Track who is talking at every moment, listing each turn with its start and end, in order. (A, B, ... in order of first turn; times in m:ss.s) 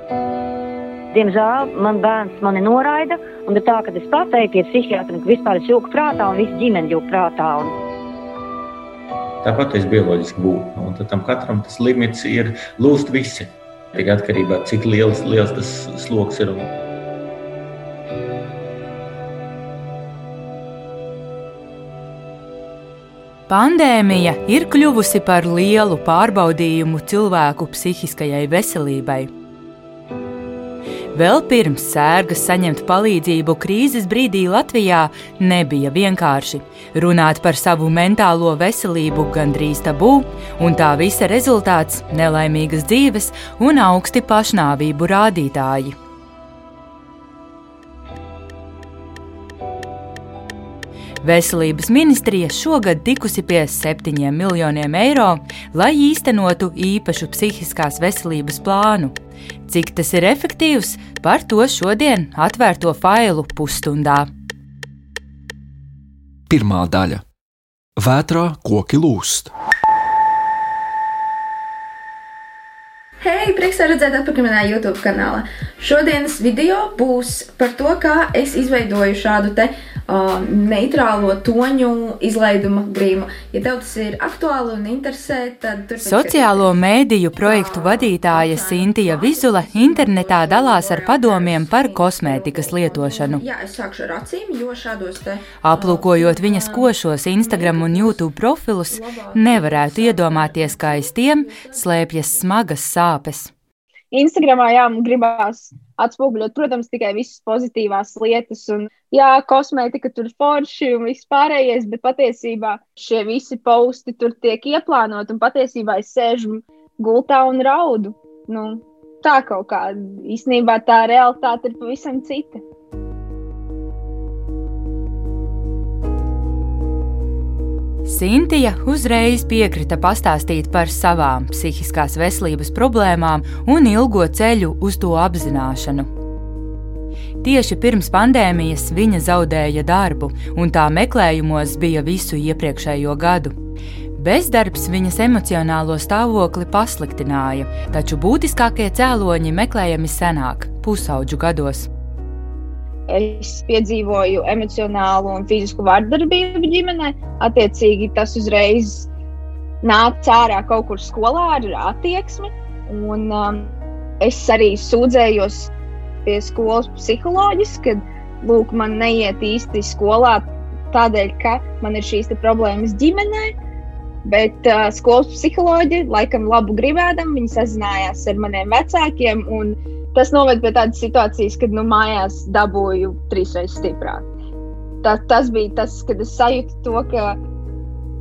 0:01.1-0:07.7 A
0:09.4-0:16.7 B
0:23.5-0:29.3 C
0:31.2-0:46.0 C
0:51.2-0:59.1 C
0:59.7-1:04.3 C
1:06.5-1:07.2 D
1:08.0-1:09.5 D
1:13.2-1:26.7 E
1:26.0-1:33.4 C
1:27.4-1:38.2 E
1:35.6-1:43.5 C
1:38.9-1:41.7 E
1:44.1-2:02.6 F
2:08.0-2:16.1 C
2:17.4-2:23.6 C
2:24.2-2:31.9 C
2:33.1-2:39.1 F
2:39.8-2:45.7 F
2:46.2-2:53.5 F
2:54.2-3:04.3 F
3:05.0-3:07.4 F